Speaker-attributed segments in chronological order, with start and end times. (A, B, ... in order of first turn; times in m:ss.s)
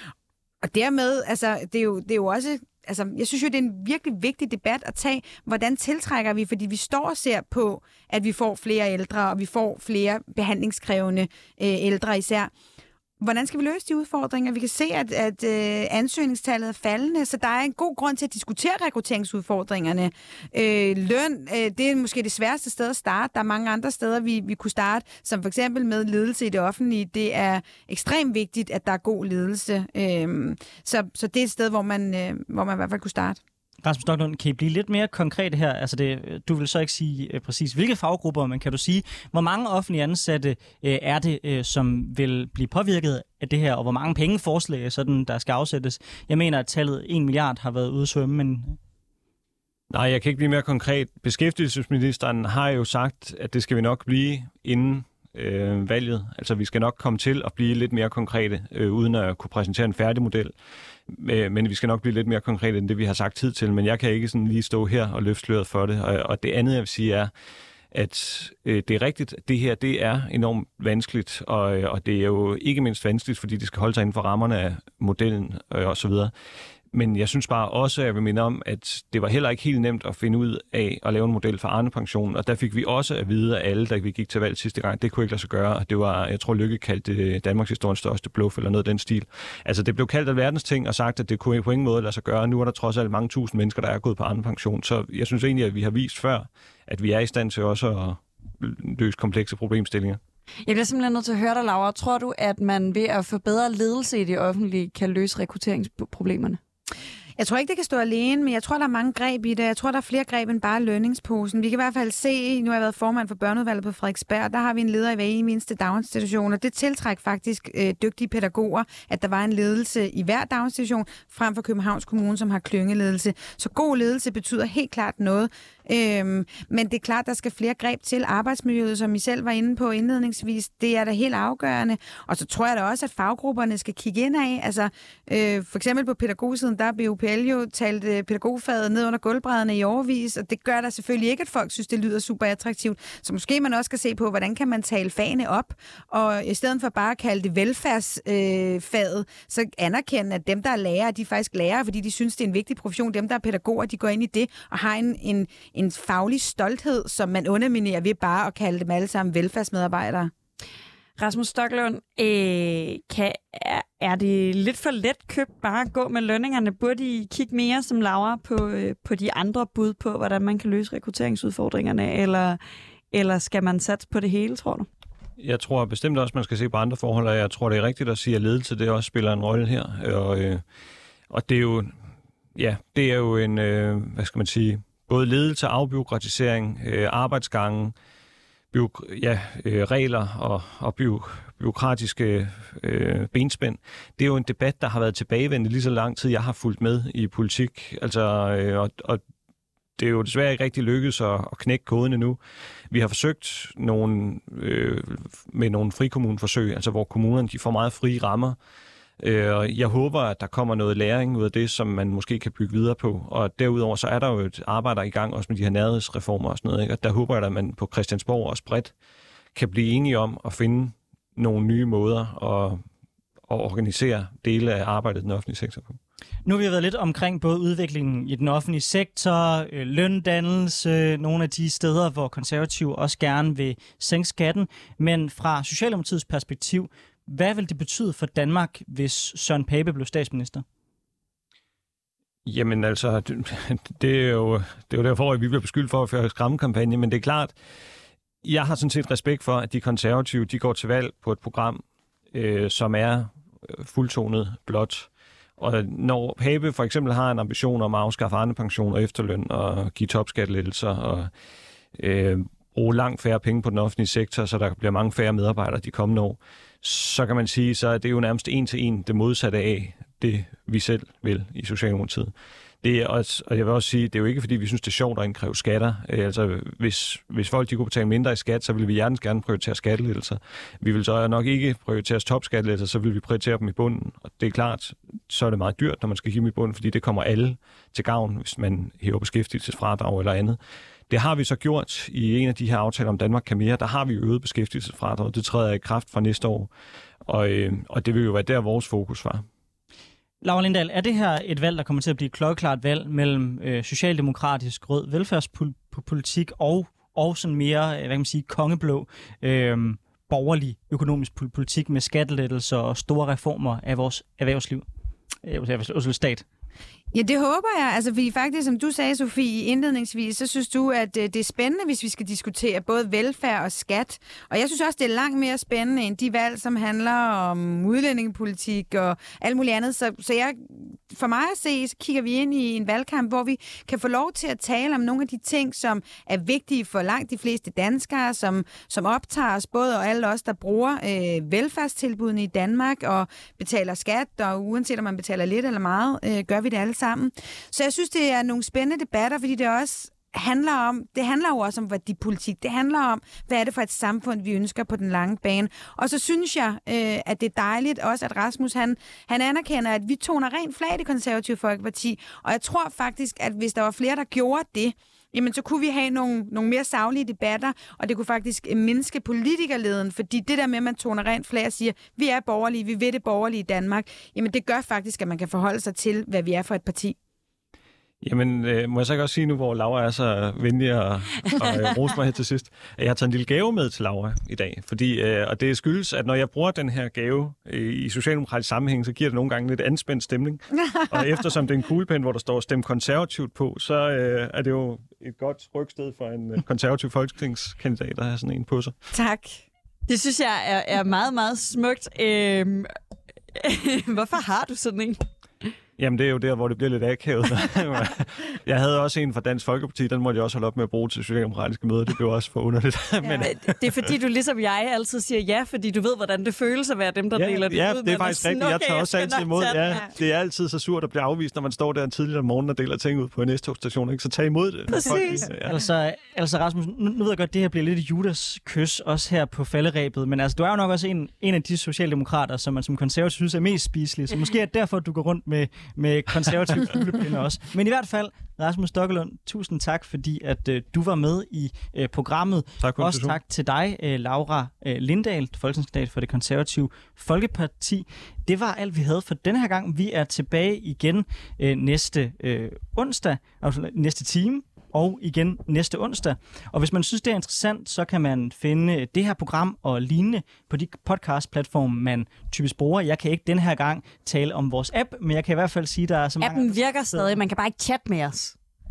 0:00.6-0:12.5 A
0:13.2-0:33.4 A
0:33.8-0:48.8 B
0:49.9-1:00.5 C
1:01.1-1:07.3 C
1:07.9-1:16.3 C
1:16.9-1:40.2 C
1:40.6-1:46.6 D
1:47.4-2:40.3 A
2:41.2-2:52.6 D
2:53.1-2:54.9 D
2:55.4-3:00.6 C
3:01.3-3:01.9 C
3:02.6-3:07.9 C
3:08.7-3:19.2 C
3:20.0-3:22.4 C
3:22.9-3:28.6 C
3:29.2-3:38.9 C
3:39.5-3:42.8 C
3:43.5-3:46.0 C
3:46.4-4:00.6 B
4:02.4-4:07.6 C
4:08.4-4:21.3 C
4:22.0-4:50.6 C
4:51.1-4:56.7 C
4:57.2-4:59.4 C
5:00.4-5:14.8 B
5:15.4-5:16.4 B
5:17.1-6:17.2 A
6:18.2-6:39.0 C
6:39.1-6:39.6 A
6:40.1-6:42.9 D
6:43.5-6:45.2 D
6:46.0-6:53.7 C
6:53.2-6:53.5 A
6:53.4-7:00.0 D
6:57.3-7:05.8 C
7:04.9-7:05.5 D
7:05.1-7:47.2 B
7:22.8-7:23.4 C
7:46.4-7:48.5 D